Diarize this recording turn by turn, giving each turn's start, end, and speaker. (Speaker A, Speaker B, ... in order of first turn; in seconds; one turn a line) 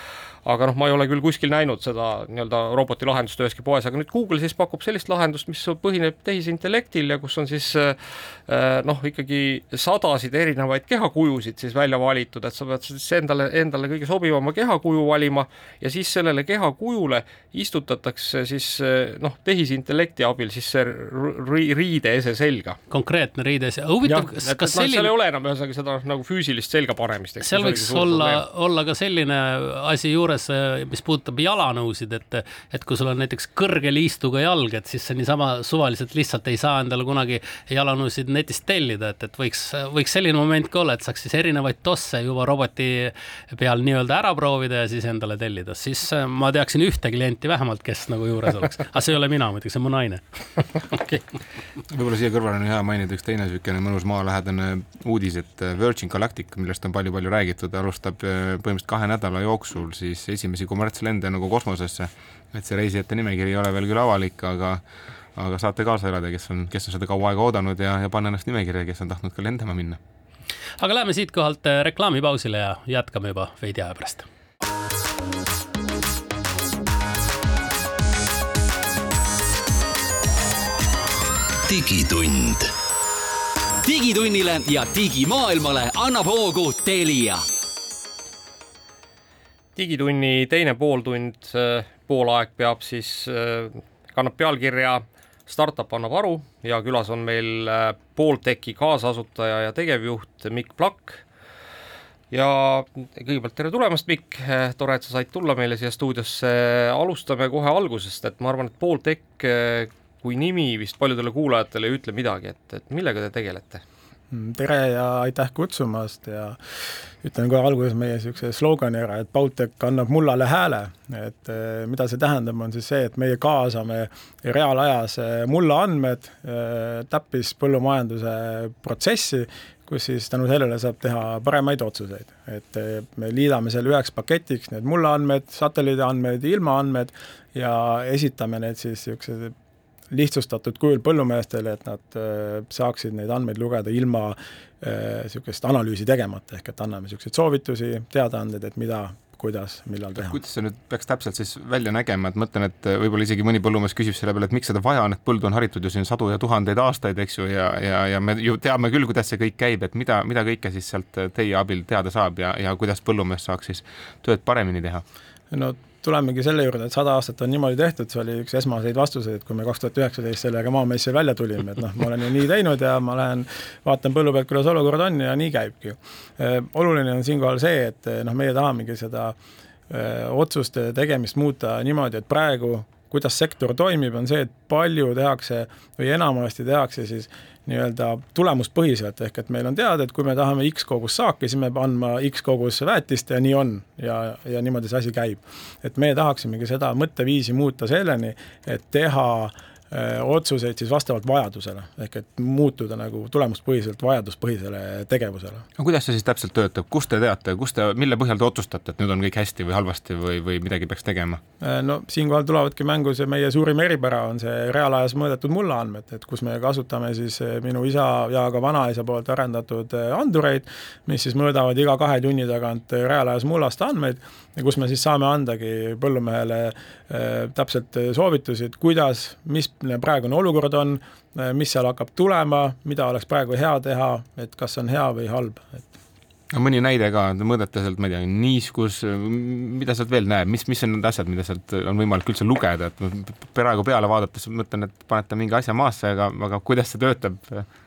Speaker A: 0.5-22.8
Speaker B: 22.9-25.1
Speaker A: 24.0-28.4
Speaker B: 27.4-50.8
Speaker C: 51.9-64.8
Speaker C: 65.3-70.0
Speaker B: 70.8-74.3
Speaker D: 81.7-82.7
Speaker D: 83.8-87.4
Speaker A: 89.8-101.2
Speaker A: 102.3-113.8
Speaker E: 114.3-139.5
Speaker E: 140.1-150.4
Speaker C: 150.2-165.0
Speaker E: 165.5-179.4
Speaker E: 179.9-205.7
Speaker C: 205.8-211.4
Speaker E: 211.6-235.9
Speaker C: 236.5-247.7